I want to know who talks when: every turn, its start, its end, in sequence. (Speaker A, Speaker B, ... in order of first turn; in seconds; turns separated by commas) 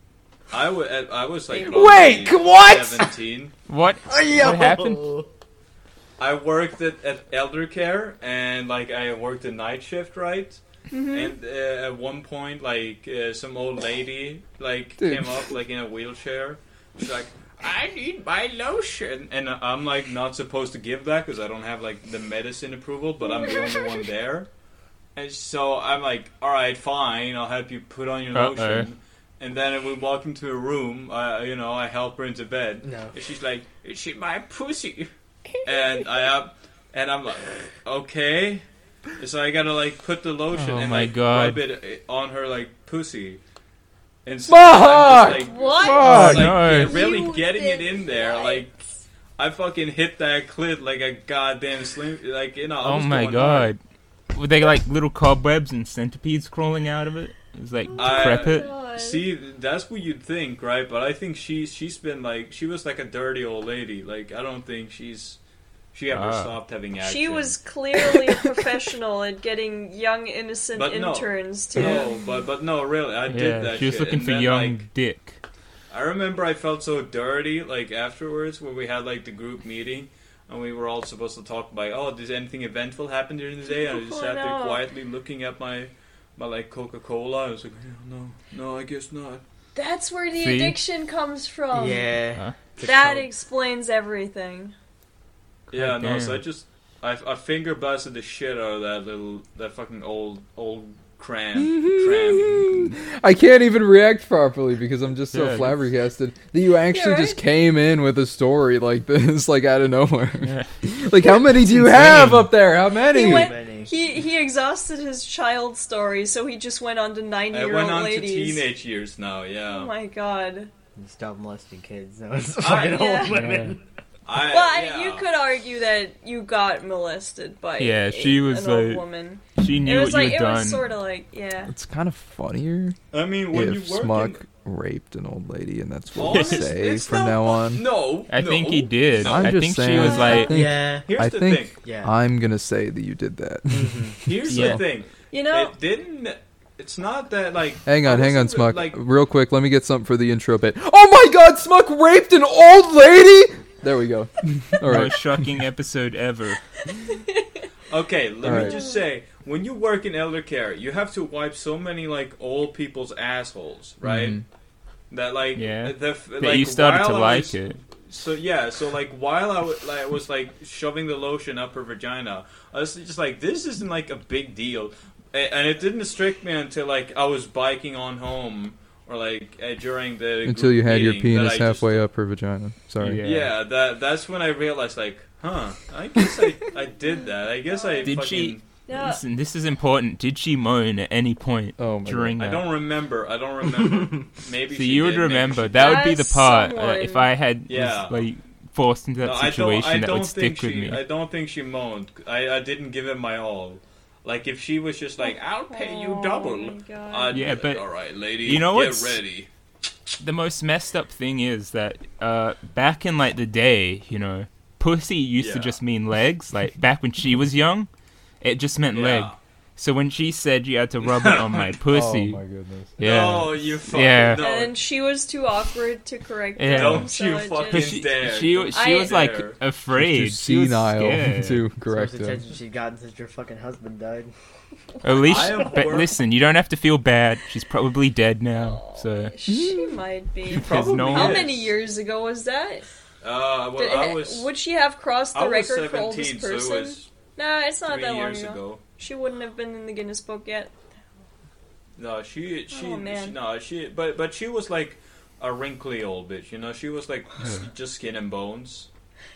Speaker A: 0.5-3.5, Speaker B: 1.5-1.9, Speaker C: 1.6-3.1, Speaker D: 3.7-5.1, Speaker E: 4.1-5.3, Speaker A: 6.2-24.5, Speaker B: 10.9-11.3, Speaker C: 15.0-15.5, Speaker B: 23.3-23.9, Speaker A: 25.1-35.1, Speaker D: 28.3-28.9, Speaker E: 32.8-33.1, Speaker A: 35.6-38.7, Speaker A: 39.2-43.4, Speaker D: 40.5-41.6, Speaker A: 44.2-48.8, Speaker C: 44.5-46.8, Speaker B: 45.3-48.6, Speaker D: 46.0-47.1, Speaker A: 49.4-53.7, Speaker D: 52.8-53.8, Speaker D: 54.3-58.7, Speaker B: 57.9-59.3, Speaker A: 57.9-65.4, Speaker A: 65.9-67.6, Speaker D: 66.1-66.5, Speaker B: 67.0-72.4, Speaker A: 70.8-74.9, Speaker D: 73.3-75.4, Speaker A: 75.9-89.4, Speaker B: 83.7-84.8, Speaker B: 89.8-92.2, Speaker D: 90.3-90.8, Speaker E: 91.7-93.3, Speaker B: 92.8-94.8, Speaker A: 95.7-102.9, Speaker D: 95.7-96.4, Speaker C: 101.5-113.5, Speaker D: 105.3-105.8, Speaker B: 106.9-107.4, Speaker D: 110.4-110.7, Speaker D: 111.5-112.5, Speaker B: 113.1-118.7, Speaker E: 113.1-114.0, Speaker A: 117.5-119.9, Speaker B: 119.7-120.7, Speaker E: 121.0-123.8, Speaker A: 122.6-123.2, Speaker B: 122.8-123.4, Speaker D: 123.3-123.8, Speaker A: 124.3-125.3, Speaker B: 124.4-131.7, Speaker D: 127.8-129.0, Speaker D: 129.6-130.9, Speaker C: 131.7-133.0, Speaker A: 133.1-134.4, Speaker C: 133.5-137.8, Speaker A: 136.2-139.6, Speaker D: 138.3-140.6, Speaker C: 139.2-144.8, Speaker B: 139.9-140.5, Speaker E: 140.5-141.2, Speaker A: 141.0-141.8, Speaker E: 141.8-142.1, Speaker E: 143.7-144.2, Speaker A: 144.2-149.0, Speaker D: 144.5-144.8, Speaker B: 145.3-145.8, Speaker C: 147.9-155.5, Speaker D: 154.8-156.6, Speaker B: 157.1-157.5, Speaker A: 157.9-164.4, Speaker C: 158.4-158.8, Speaker B: 158.6-158.9, Speaker C: 164.0-164.4, Speaker A: 165.1-182.0, Speaker D: 165.6-167.8, Speaker C: 180.4-183.2, Speaker D: 183.0-183.5, Speaker A: 183.2-188.7, Speaker B: 187.7-188.1, Speaker D: 188.0-192.6, Speaker B: 188.9-189.2, Speaker C: 191.8-192.4, Speaker A: 192.4-196.1, Speaker D: 194.7-201.0, Speaker B: 195.8-197.3, Speaker A: 197.7-198.2, Speaker A: 199.2-209.5, Speaker B: 205.2-207.4, Speaker D: 207.3-209.2, Speaker D: 210.2-217.9, Speaker A: 215.4-215.8, Speaker D: 218.4-222.4, Speaker A: 218.9-219.4, Speaker A: 221.0-221.7, Speaker C: 221.9-223.0, Speaker D: 223.0-224.4, Speaker A: 223.0-224.8, Speaker B: 224.4-228.0, Speaker D: 226.6-227.1, Speaker A: 226.7-229.6, Speaker D: 227.7-231.7, Speaker B: 228.7-229.2, Speaker C: 229.9-232.4, Speaker E: 231.9-234.3, Speaker D: 235.0-239.3, Speaker A: 235.2-236.2, Speaker B: 238.6-242.9, Speaker C: 239.5-240.0, Speaker A: 240.5-241.7, Speaker D: 240.5-241.5, Speaker A: 243.2-244.5, Speaker B: 243.8-250.7, Speaker A: 245.3-247.1, Speaker A: 247.8-248.8, Speaker A: 252.0-258.9, Speaker B: 252.7-253.4